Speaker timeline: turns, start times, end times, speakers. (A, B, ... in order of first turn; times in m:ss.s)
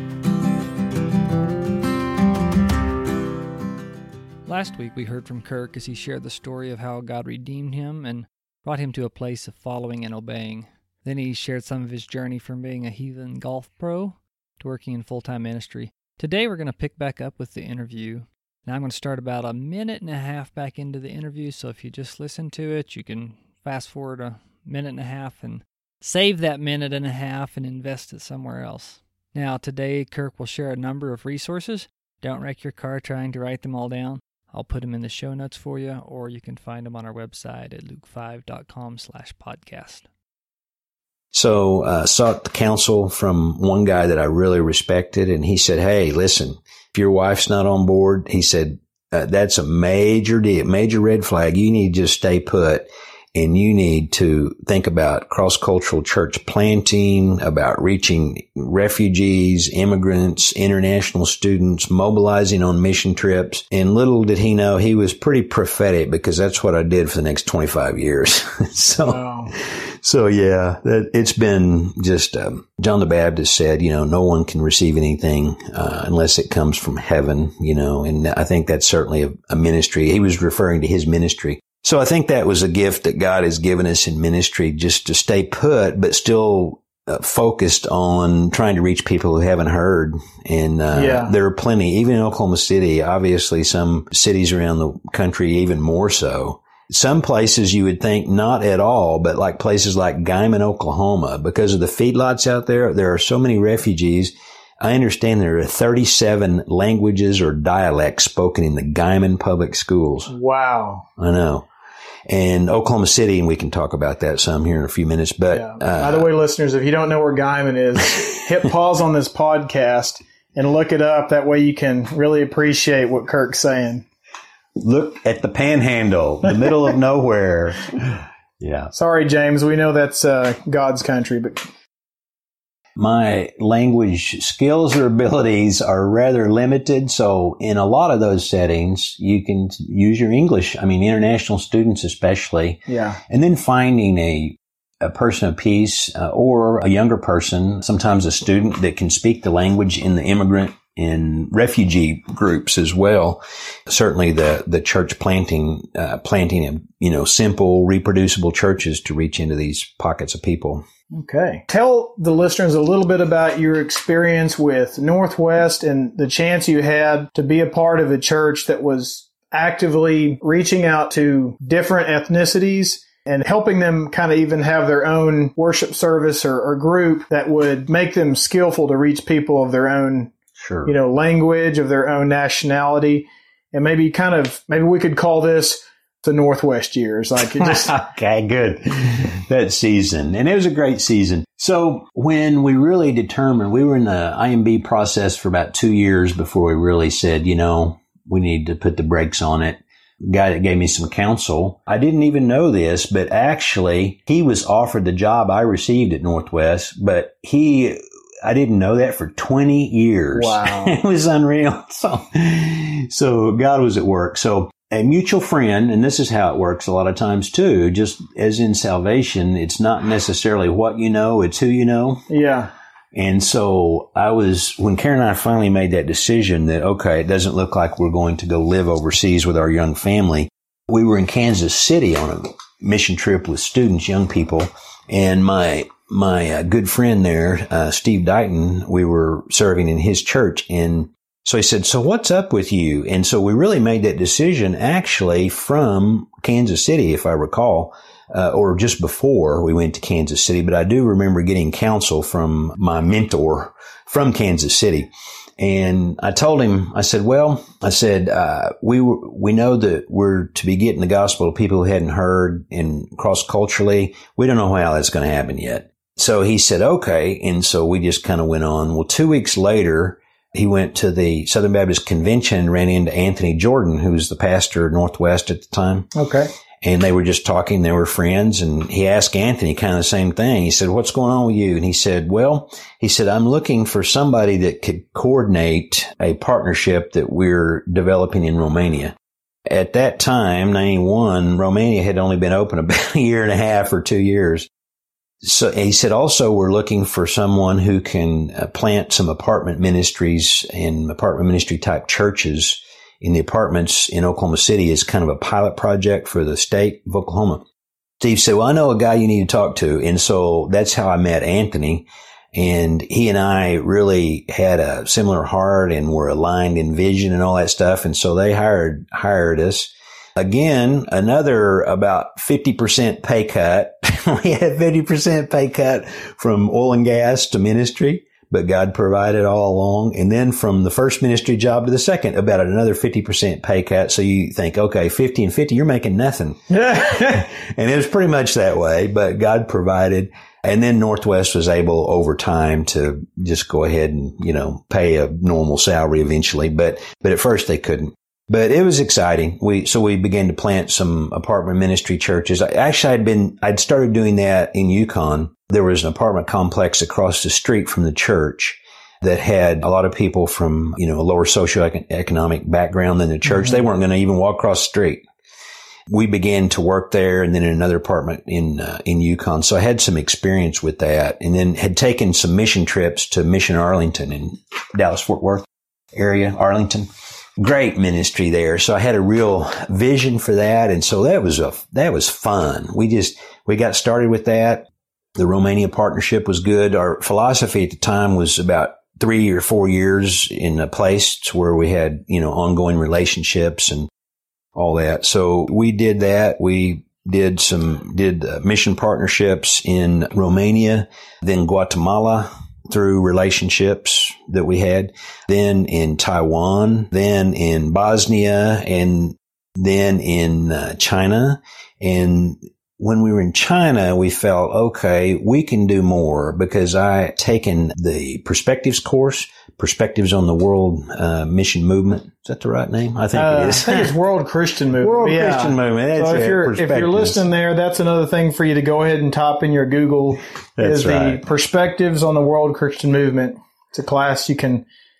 0:04.4-0:40.1 A
0:41.3-1:50.3 B
1:09.0-1:09.5 C
1:30.9-1:31.3 C
1:50.3-1:51.0 C
1:51.2-1:51.7 B
1:52.3-1:56.3 B
1:55.5-2:04.0 C
2:04.8-2:08.9 B
2:08.9-2:11.6 C
2:13.0-2:40.8 B
2:22.9-2:23.2 C
2:41.1-3:00.3 C
3:00.6-3:00.9 B
3:00.8-3:07.9 C
3:07.6-3:42.3 B
3:30.3-3:31.0 C
3:42.3-3:42.7 C
3:43.1-4:36.1 B
4:36.1-4:36.5 C
4:36.8-4:49.2 B
4:49.7-4:54.7 B
4:55.4-5:07.6 B
5:08.2-6:05.2 B
5:36.7-5:37.4 C
6:06.1-6:17.1 B
6:17.6-6:34.1 B
6:34.7-7:04.2 B
7:03.3-7:14.8 C
7:05.0-7:07.4 B
7:10.8-7:11.4 B